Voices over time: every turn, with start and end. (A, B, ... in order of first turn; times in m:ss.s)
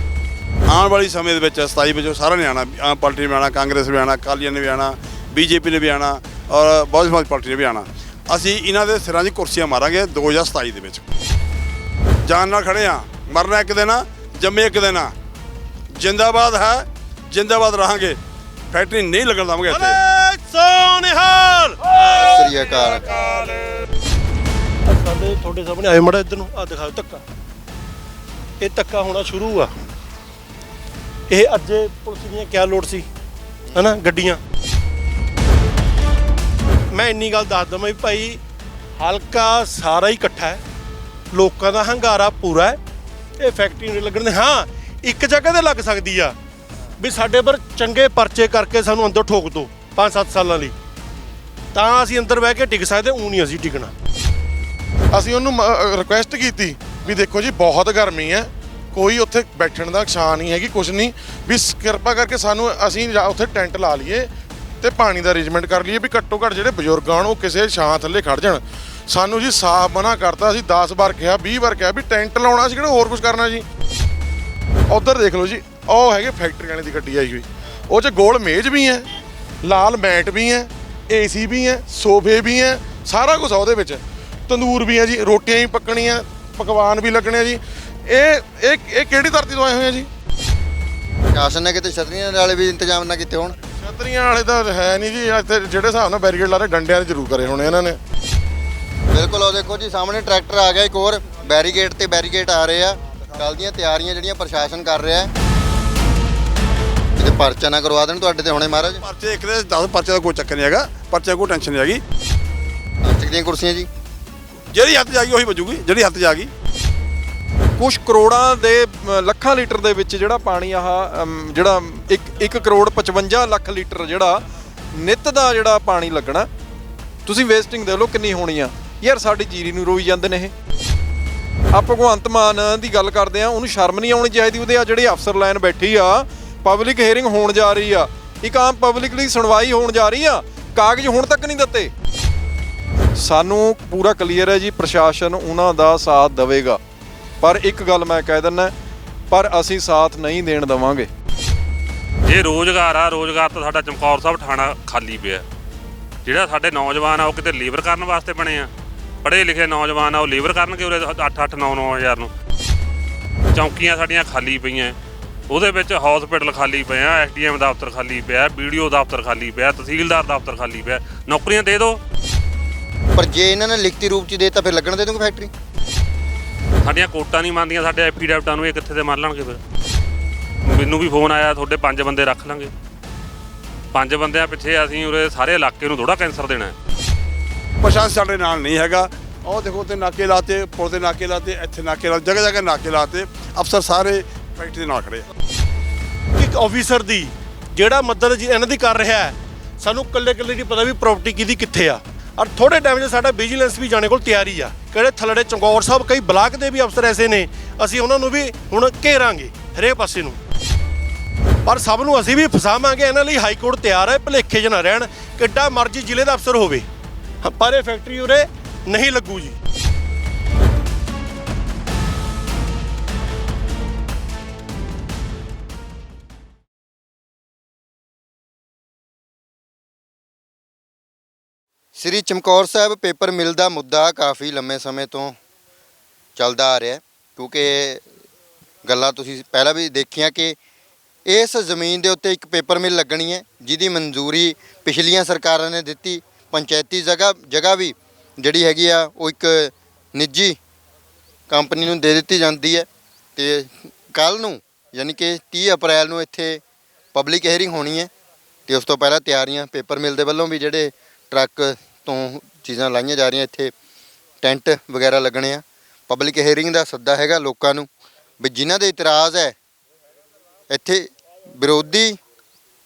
0:00.7-0:11.0 A
0:12.2-0:15.1 A
0:16.0-0:18.2 A
0:18.7-0:20.0 A
0:19.7-0:22.5 B
0:22.1-0:23.1 C
0:23.2-0:23.5 B
0:24.8-0:27.2 B
0:28.6-0:29.7 B
0:31.3-0:33.0 B
0:33.7-0:34.4 B
0:36.9-0:38.4 B
0:39.0-0:40.6 B
0:41.3-0:42.8 B
0:43.4-0:46.4 B
0:47.0-0:50.7 B
0:51.7-0:53.9 B
0:55.1-1:13.6 D
1:14.9-1:19.0 D
1:19.6-1:30.1 D
1:31.3-1:33.6 C
1:33.8-1:38.0 D
1:39.1-1:45.3 C
1:47.2-1:49.0 C
1:49.0-1:52.0 A
1:53.0-1:53.9 C
1:54.7-1:56.5 A
1:57.8-2:04.4 E
2:05.0-2:06.5 E
2:07.2-2:10.5 E
2:11.7-2:21.9 E
2:23.2-2:26.8 E
2:27.4-2:28.7 E
2:29.3-2:31.1 E
2:32.2-2:35.4 F
2:36.2-2:38.7 F
2:39.2-2:42.3 F
2:43.5-2:44.9 F
2:45.5-2:52.0 F
2:53.2-2:55.5 C
2:56.8-2:59.6 F
3:00.6-3:02.7 F
3:03.9-3:06.7 F
3:07.8-3:15.2 A
3:16.4-3:30.4 B
3:31.6-3:36.9 B
3:37.4-3:39.6 B
3:51.9-3:55.4 C
3:56.4-3:58.0 C
3:58.8-4:00.6 C
4:01.2-4:10.6 C
4:11.5-4:16.6 C
4:17.1-4:18.1 C
4:18.7-4:23.7 C
4:24.4-4:27.9 C
4:28.4-4:29.6 C
4:30.7-4:32.2 C